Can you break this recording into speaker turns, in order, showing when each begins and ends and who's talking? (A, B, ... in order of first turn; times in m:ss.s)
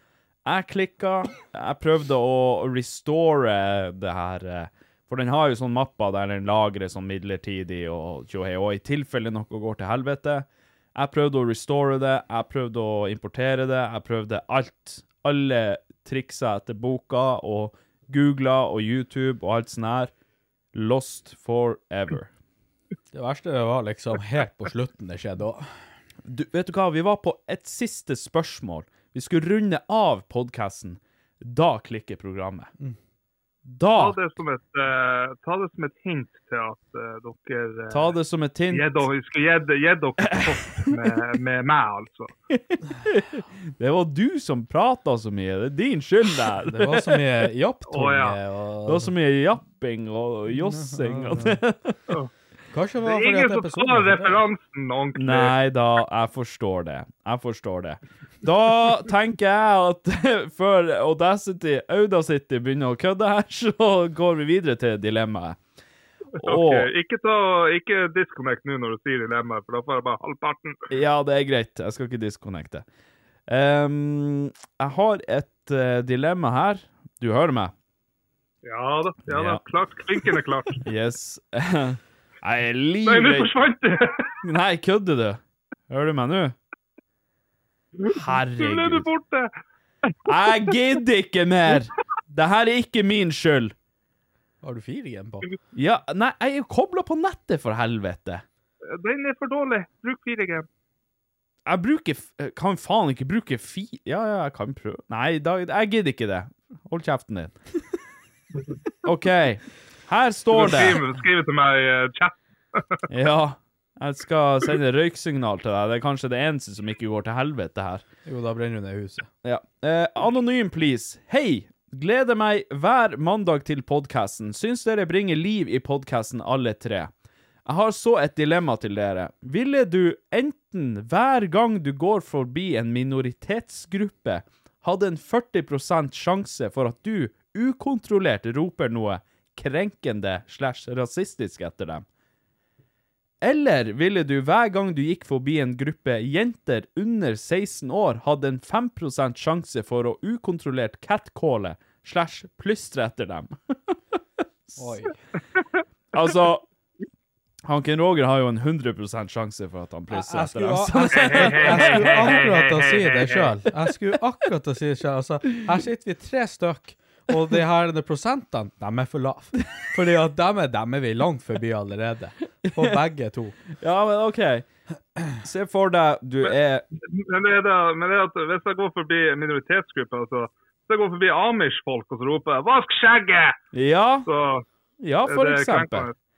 0:00.4-0:20.1 A
0:20.7-0:22.3 A
0:23.1-0:25.7 B
0:26.2-0:32.7 A
0:33.6-0:34.2 A
0:33.9-0:38.2 C
0:37.9-0:39.1 A
0:38.7-0:42.3 C
0:40.2-0:41.0 A
0:42.5-0:47.3 A
0:46.7-0:49.1 B
0:47.9-0:48.4 C
0:48.8-0:52.0 A
0:50.5-0:51.6 B
0:52.7-0:54.4 B
0:53.0-0:55.6 C
0:55.1-1:05.6 A
1:06.4-1:10.8 C
1:06.4-1:06.9 A
1:10.9-1:12.8 A
1:13.5-1:17.7 A
1:18.6-1:20.8 C
1:19.3-1:19.6 A
1:20.8-1:23.5 A
1:23.0-1:24.4 C
1:24.4-1:26.6 A
1:28.0-1:29.5 C
1:28.1-1:29.1 A
1:30.1-1:30.7 C
1:30.3-1:33.7 A
1:34.6-1:35.4 B
1:35.7-1:38.4 A
1:38.9-1:40.7 C
1:41.6-1:47.6 A
1:49.0-1:51.0 A
1:50.5-1:53.0 C
1:53.1-1:58.0 A
1:58.2-1:59.3 B
1:59.4-2:07.1 A
2:07.6-2:22.0 A
2:23.4-2:33.9 A
2:34.8-2:35.2 B
2:36.1-2:36.6 A
2:37.6-2:42.4 A
2:40.1-2:53.6 B
2:41.1-2:43.6 C
2:52.7-2:53.0 A
2:53.8-2:54.7 A
2:55.3-2:56.8 A
2:56.4-3:03.6 C
3:03.7-3:04.3 A
3:04.2-3:04.6 C
3:05.0-3:06.1 A
3:05.2-3:06.1 C